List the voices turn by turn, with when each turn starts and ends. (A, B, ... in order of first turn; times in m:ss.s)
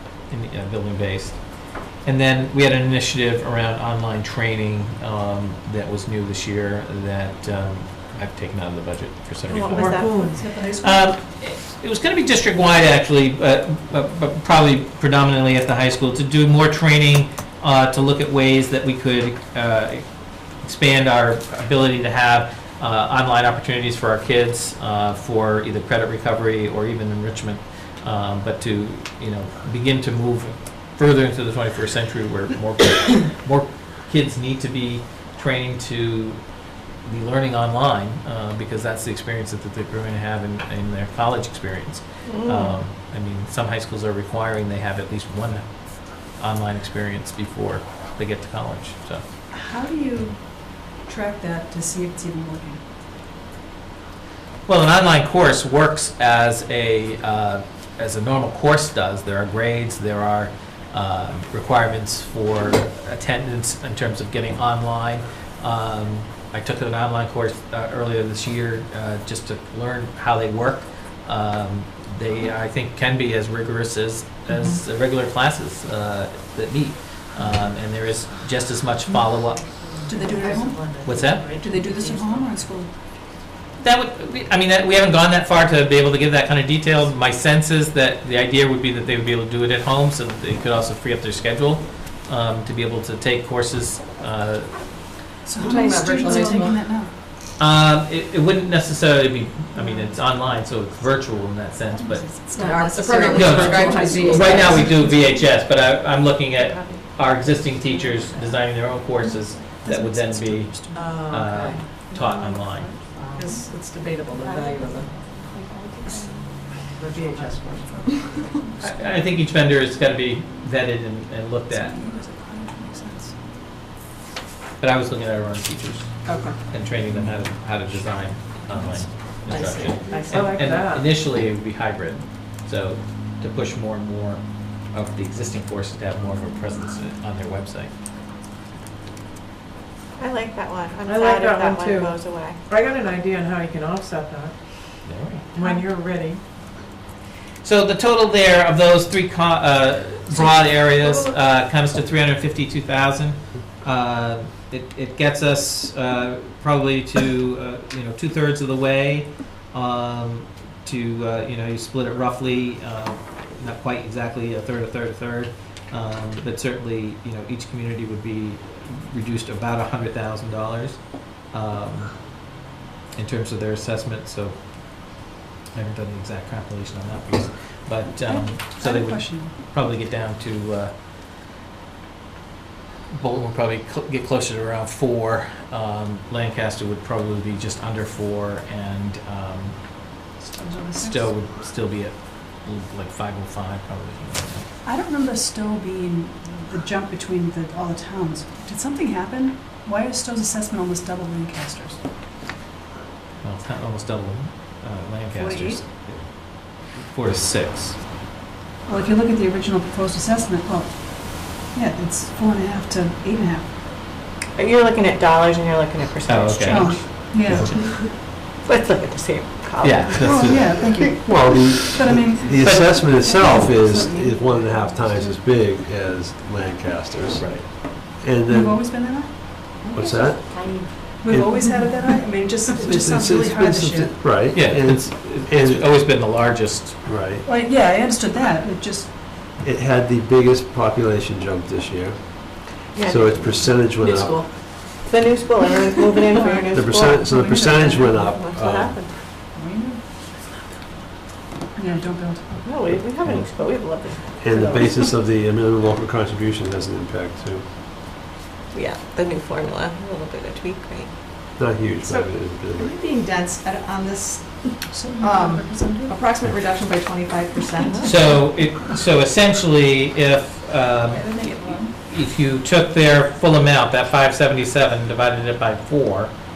0:00.3-0:01.4 A
0:02.0-0:20.0 A
0:09.5-0:10.2 B
0:09.7-0:11.1 C
0:09.7-0:10.4 D
0:20.6-0:36.5 A
0:37.0-0:45.6 A
0:42.2-0:42.8 B
0:46.2-0:49.2 A
0:49.5-0:52.8 C
0:54.6-1:19.7 A
1:19.8-1:21.7 B
1:20.1-1:20.9 C
1:21.0-1:21.6 A
1:21.6-1:23.0 C
1:23.8-1:34.8 A
1:35.4-1:37.1 C
1:35.6-1:36.8 D
1:37.6-1:42.3 A
1:39.8-1:40.2 C
1:41.9-1:45.1 C
1:42.6-1:45.0 D
1:43.2-1:44.9 B
1:43.3-1:53.0 A
1:49.2-1:51.2 C
1:50.9-1:51.9 D
1:52.1-1:53.1 C
1:53.3-1:55.1 D
1:57.0-1:58.0 D
1:57.8-1:59.2 C
1:58.8-2:02.0 A
2:01.7-2:03.4 C
2:04.8-2:17.9 A
2:06.2-2:06.5 D
2:09.5-2:11.2 D
2:20.2-2:22.6 B
2:21.0-2:22.2 D
2:22.7-2:24.5 D
2:25.0-2:25.4 A
2:25.5-2:26.4 D
2:27.6-2:52.2 A
2:53.2-2:54.6 A
2:55.7-3:00.9 A
2:58.2-2:59.5 C
3:03.1-3:09.8 A
3:10.5-3:11.4 C
3:11.0-3:14.7 A
3:14.8-3:22.0 C
3:23.4-3:28.0 A
3:25.3-3:25.8 C
3:28.8-3:33.8 C
3:34.5-3:37.0 B
3:36.2-3:38.1 A
3:36.6-3:37.8 C
3:38.6-3:41.2 B
3:39.8-3:40.7 A
3:40.2-3:42.7 C
3:41.2-3:48.9 E
3:42.6-3:42.9 A
3:47.3-3:47.7 A
3:48.5-3:49.5 C
3:49.9-3:51.6 E
3:51.2-3:54.2 C
3:52.8-3:56.0 E
3:54.5-3:57.0 A
3:57.0-3:57.4 E
3:57.4-3:59.2 C
3:59.6-4:04.6 E
4:02.9-4:07.2 B
4:06.3-4:08.4 C
4:06.7-4:09.1 E
4:08.2-4:09.2 B
4:09.5-4:10.0 C
4:11.8-4:12.6 C
4:12.6-4:15.0 B
4:13.0-4:13.4 E
4:14.4-4:17.7 E
4:18.7-4:21.1 B
4:21.6-4:22.9 E
4:22.0-4:28.4 D
4:24.9-4:26.2 C
4:27.8-4:28.1 B
4:28.0-4:36.3 A
4:31.1-4:31.9 C